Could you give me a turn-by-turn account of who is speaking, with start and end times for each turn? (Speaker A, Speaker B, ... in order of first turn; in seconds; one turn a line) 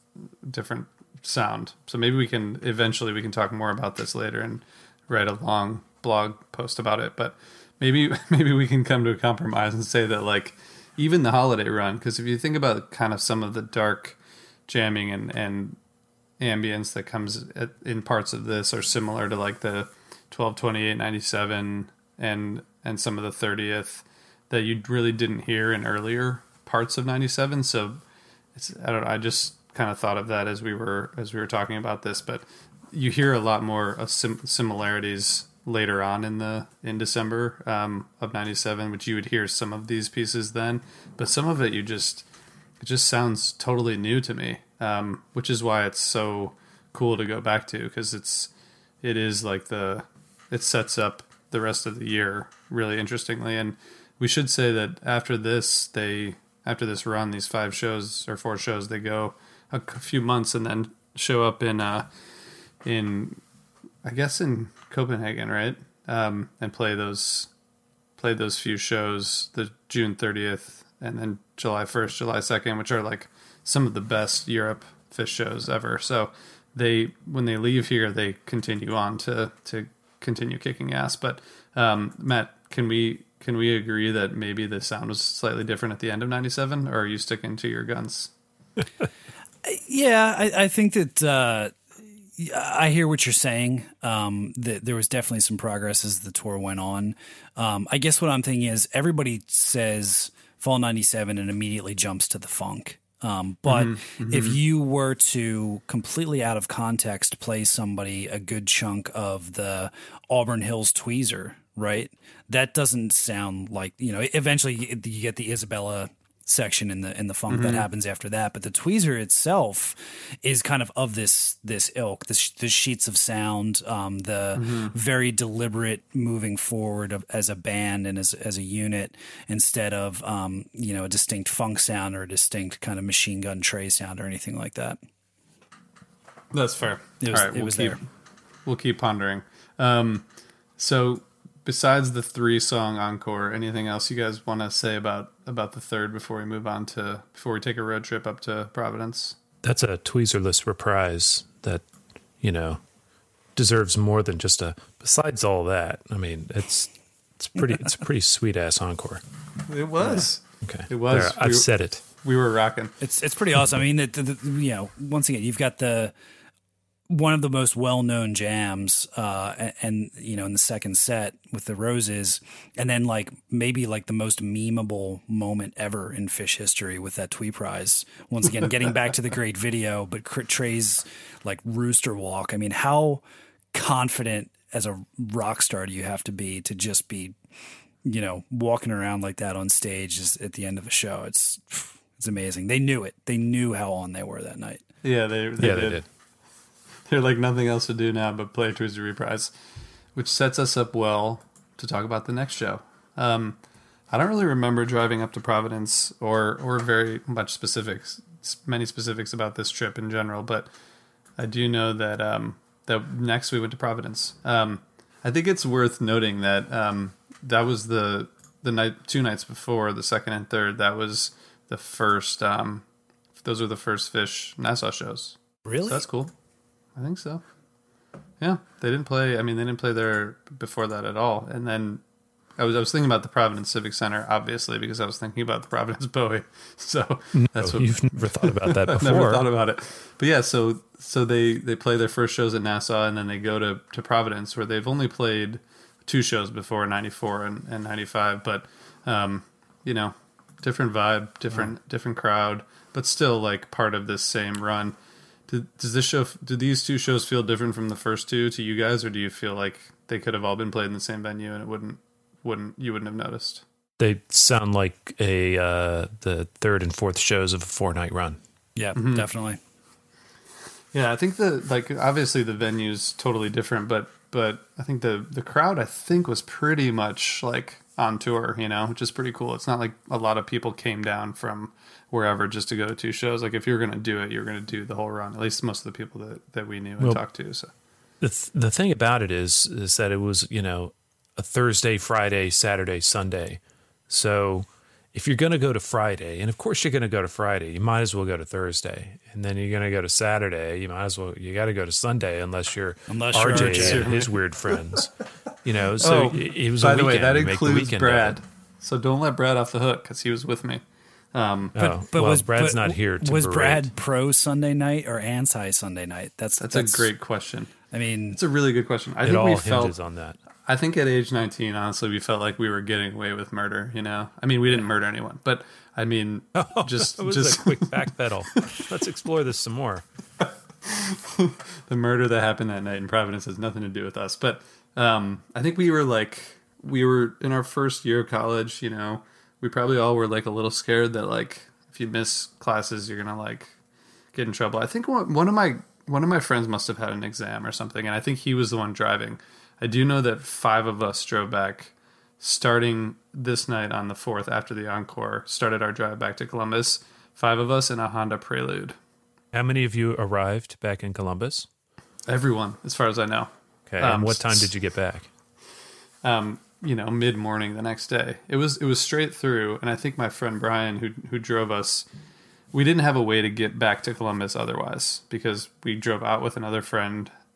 Speaker A: 0.4-14.2
Speaker A: 14.7-15.8
Speaker A: 16.4-28.0
Speaker A: 28.6-42.3
Speaker A: 42.8-48.5
Speaker A: 49.0-62.1
Speaker A: 62.8-63.4
Speaker A: 64.0-67.5
Speaker A: 68.2-88.3
Speaker B: 89.6-91.8
Speaker B: 92.4-135.0
Speaker A: 103.7-104.6
Speaker A: 117.5-117.9
Speaker A: 124.5-124.9
Speaker A: 136.5-138.0
Speaker B: 137.2-138.0
Speaker A: 138.7-140.3
Speaker A: 140.8-149.4
Speaker C: 149.6-151.8
Speaker C: 152.4-152.8
Speaker C: 153.6-159.2
Speaker A: 159.7-162.9
Speaker C: 160.6-162.0
Speaker B: 163.0-166.1
Speaker B: 167.1-187.4
Speaker B: 188.0-194.8
Speaker A: 195.0-196.0
Speaker C: 195.6-196.0
Speaker A: 197.1-199.5
Speaker A: 200.2-203.6
Speaker A: 204.1-210.7
Speaker A: 211.4-222.8
Speaker A: 223.4-226.3
Speaker B: 225.7-226.1
Speaker A: 227.0-227.4
Speaker A: 228.4-232.0
Speaker A: 232.6-255.0
Speaker C: 237.3-239.5
Speaker A: 255.5-263.6
Speaker C: 264.0-268.4
Speaker B: 268.8-269.6
Speaker A: 268.9-269.3
Speaker A: 270.9-287.7
Speaker C: 288.2-305.1
Speaker B: 303.1-304.1
Speaker A: 303.5-304.4
Speaker C: 305.6-308.4
Speaker A: 306.0-310.8
Speaker A: 311.3-311.8
Speaker C: 311.8-313.9
Speaker B: 311.8-317.1
Speaker A: 316.6-317.7
Speaker B: 317.9-318.4
Speaker A: 318.3-319.9
Speaker C: 319.2-320.4
Speaker A: 320.7-328.0
Speaker C: 326.6-330.0
Speaker A: 330.9-343.7
Speaker A: 344.3-359.0
Speaker C: 359.5-361.7
Speaker A: 362.3-364.7
Speaker C: 363.9-365.3
Speaker A: 366.2-372.1
Speaker A: 372.7-377.3